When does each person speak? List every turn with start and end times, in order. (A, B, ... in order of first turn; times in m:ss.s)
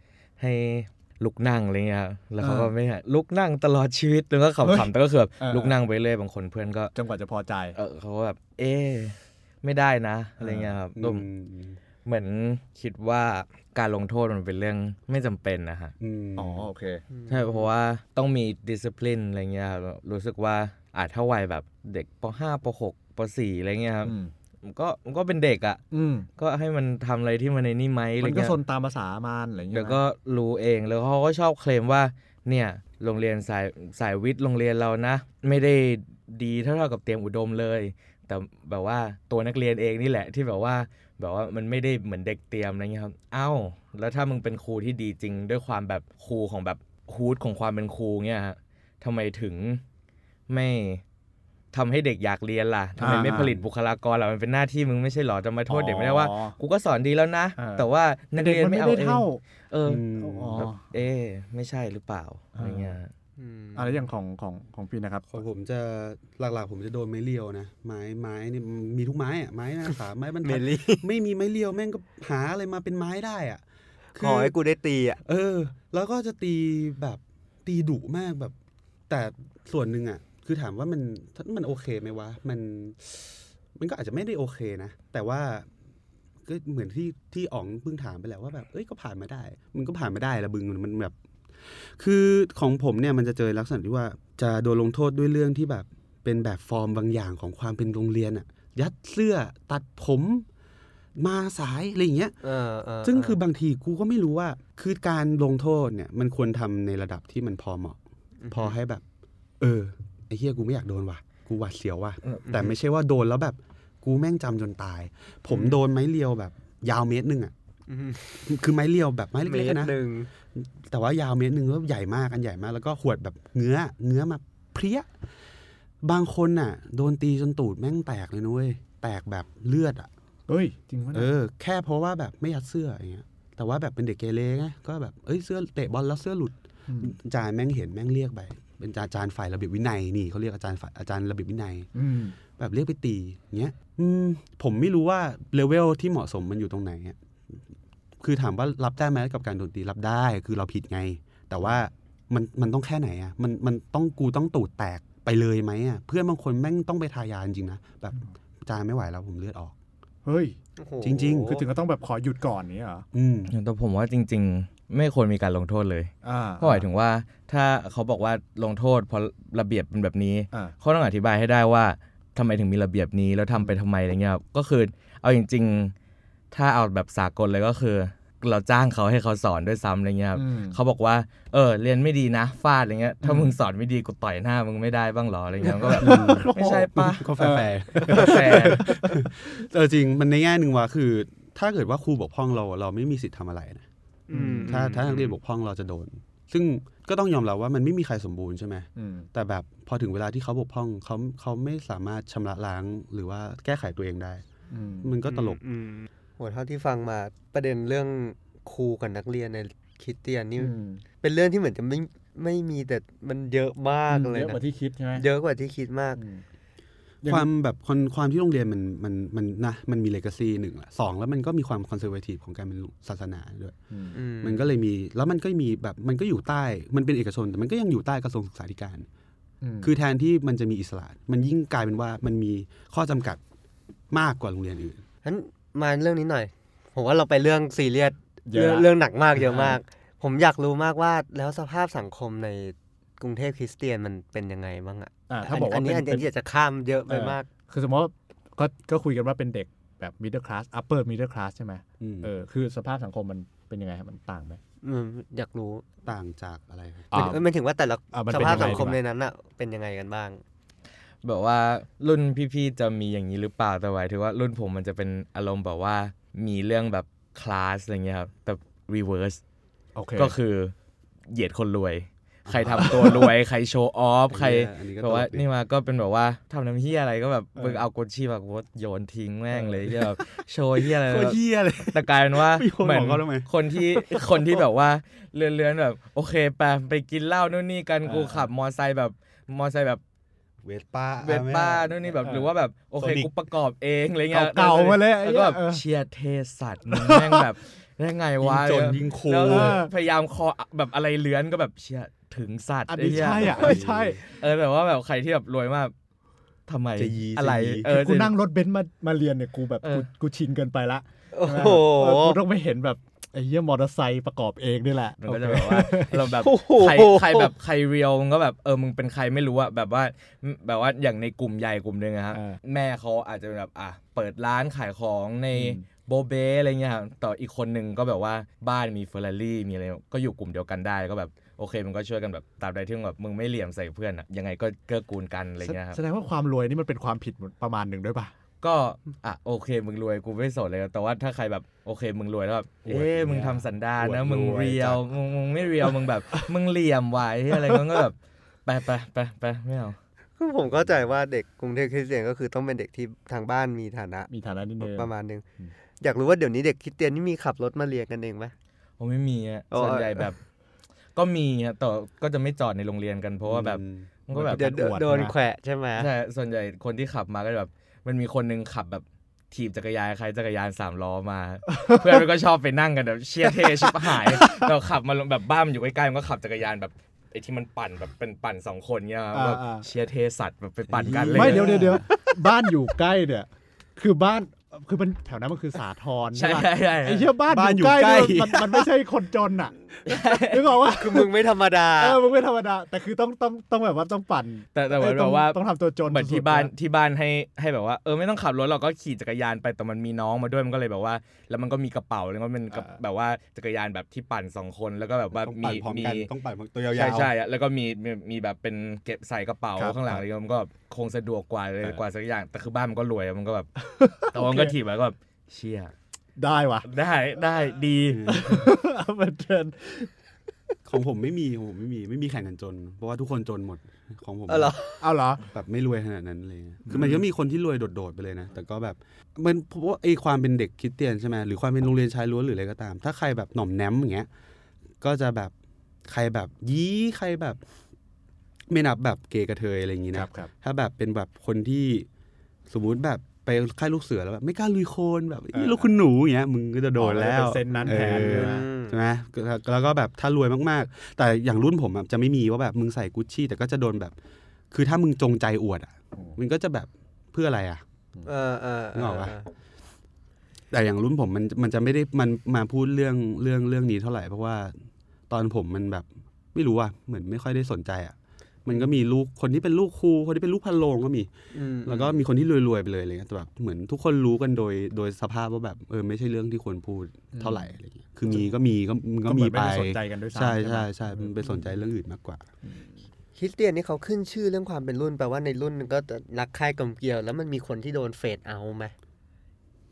0:00.4-0:06.9 A
0:02.4-0:02.7 B
0:04.6-0:05.8 B
0:06.9-0:07.8 B
0:07.7-0:11.2 A
0:10.4-0:10.7 B
0:10.9-0:11.8 C
0:12.0-0:15.9 A
0:16.0-0:16.7 C
0:16.4-0:17.0 B
0:17.1-0:17.7 D
0:17.3-0:25.8 A
0:24.0-0:24.3 B
0:25.9-0:26.3 B
0:26.4-0:28.5 A
0:28.2-0:30.0 B
0:29.7-0:49.8 A
0:50.5-0:51.0 A
0:51.7-1:03.1 A
0:53.0-0:53.6 B
0:55.7-0:56.6 B
0:57.6-0:59.4 B
0:59.8-1:00.7 C
1:00.1-1:00.8 B
1:02.5-1:03.0 B
1:03.4-1:03.9 D
1:03.7-1:05.4 B
1:05.3-1:13.6 C
1:10.4-1:11.0 D
1:14.1-1:14.5 C
1:14.2-1:15.2 D
1:15.2-1:18.5 C
1:19.1-1:25.7 C
1:26.4-1:40.5 C
1:41.2-1:42.4 C
1:42.4-1:43.4 D
1:43.0-1:48.0 C
1:48.4-1:48.8 D
1:48.5-1:49.0 C
1:49.6-1:57.5 C
1:52.4-1:52.7 D
1:55.5-1:55.8 D
1:57.9-1:58.4 D
1:58.4-2:00.0 C
1:59.4-2:00.3 D
2:00.5-2:05.1 C
2:06.0-2:10.1 C
2:10.5-2:11.3 B
2:11.1-2:21.9 C
2:16.9-2:17.2 B
2:21.9-2:22.4 B
2:22.5-2:27.6 C
2:28.2-2:39.7 C
2:40.2-2:40.6 B
2:40.8-2:41.6 D
2:41.0-2:41.6 C
2:41.4-2:43.0 B
2:43.1-2:43.5 C
2:43.5-2:55.9 A
2:46.2-2:46.9 B
2:56.5-3:07.4 A
3:00.3-3:00.8 B
3:03.2-3:03.5 B
3:05.8-3:09.3 B
3:06.0-3:13.8 C
3:08.1-3:08.9 A
3:14.3-3:15.4 D
3:14.3-3:14.9 B
3:14.6-3:24.4 C
3:19.0-3:19.3 B
3:24.7-3:25.1 B
3:25.0-3:25.6 C
3:25.2-3:34.6 D
3:30.6-3:31.0 B
3:34.1-3:35.3 B
3:35.1-3:36.2 D
3:36.2-3:36.4 B
3:37.2-3:37.5 B
3:37.2-3:43.8 C
3:43.9-3:44.2 B
3:44.1-3:44.6 D
3:44.4-3:49.1 C
3:49.6-3:49.9 B
3:49.8-3:53.4 C
3:54.1-3:55.0 C
3:55.2-4:07.5 D
3:58.4-3:59.8 B
4:05.3-4:06.3 B
4:07.1-4:14.6 B
4:12.0-4:12.3 C
4:14.8-4:15.8 D
4:16.0-4:17.2 C
4:17.1-4:17.5 B
4:17.1-4:20.4 D
4:18.1-4:19.0 B
4:18.4-4:18.9 C
4:21.2-4:29.4 A
4:30.0-4:30.4 B
4:30.2-4:30.7 A
4:31.3-4:41.4 A
4:32.4-4:33.3 C
4:32.7-4:33.3 B
4:34.3-4:35.4 C
4:37.6-4:37.8 B
4:39.5-4:39.9 B
4:40.8-4:44.6 C
4:41.9-4:50.0 A
4:48.0-4:48.5 B
4:50.6-4:52.1 C
4:51.2-5:05.9 A
4:52.2-4:52.5 B
4:53.0-4:53.3 C
4:54.3-4:55.8 B
4:56.9-4:57.4 B
4:58.4-4:59.8 C
4:59.4-4:59.9 B
5:02.9-5:04.2 B
5:03.2-5:04.2 C
5:06.7-5:08.3 A
5:07.0-5:07.9 C
5:07.8-5:16.3 B
5:11.3-5:12.4 D
5:15.2-5:36.0 A
5:16.3-5:17.5 D
5:22.3-5:22.6 B
5:25.5-5:25.8 B
5:35.6-5:38.3 B
5:38.6-5:50.0 A
5:42.8-5:45.0 B
5:44.2-5:45.0 C
5:50.4-5:55.4 D
5:54.3-5:55.7 B
5:56.0-5:58.5 D
5:59.0-6:00.4 A
5:59.7-6:00.3 D
6:01.1-6:04.7 A
6:03.4-6:04.1 C
6:04.3-6:05.3 B
6:04.5-6:06.1 D
6:06.0-6:22.0 A
6:11.7-6:12.1 B
6:13.8-6:14.7 B
6:19.3-6:19.8 B
6:20.9-6:22.1 C
6:21.3-6:31.3 B
6:26.3-6:27.3 A
6:27.5-6:28.9 C
6:30.0-6:30.8 A
6:31.0-6:32.2 D
6:32.0-6:36.7 B
6:34.7-6:46.3 A
6:42.7-6:43.0 B
6:45.3-6:47.3 C
6:46.9-6:55.9 A
6:49.8-6:50.2 B
6:53.8-6:54.7 B
6:56.4-6:56.9 B
6:56.8-6:58.7 A
6:58.1-6:58.5 C
6:58.3-7:00.1 B
7:00.8-7:04.8 C
7:04.5-7:05.0 D
7:05.0-7:05.4 B
7:05.5-7:14.3 C
7:06.8-7:07.2 B
7:15.0-7:15.5 C
7:16.0-7:17.6 C
7:18.7-7:22.1 C
7:20.1-7:20.5 B
7:22.7-7:34.1 C
7:25.5-7:25.9 B
7:27.0-7:28.6 B
7:27.8-7:29.0 D
7:34.7-7:37.8 C
7:38.2-7:39.5 D
7:38.9-7:39.3 C
7:40.7-7:51.3 C
7:51.5-7:52.2 D
7:51.8-8:02.5 C
7:57.3-7:57.7 B
7:59.2-8:01.7 B
8:03.3-8:08.9 D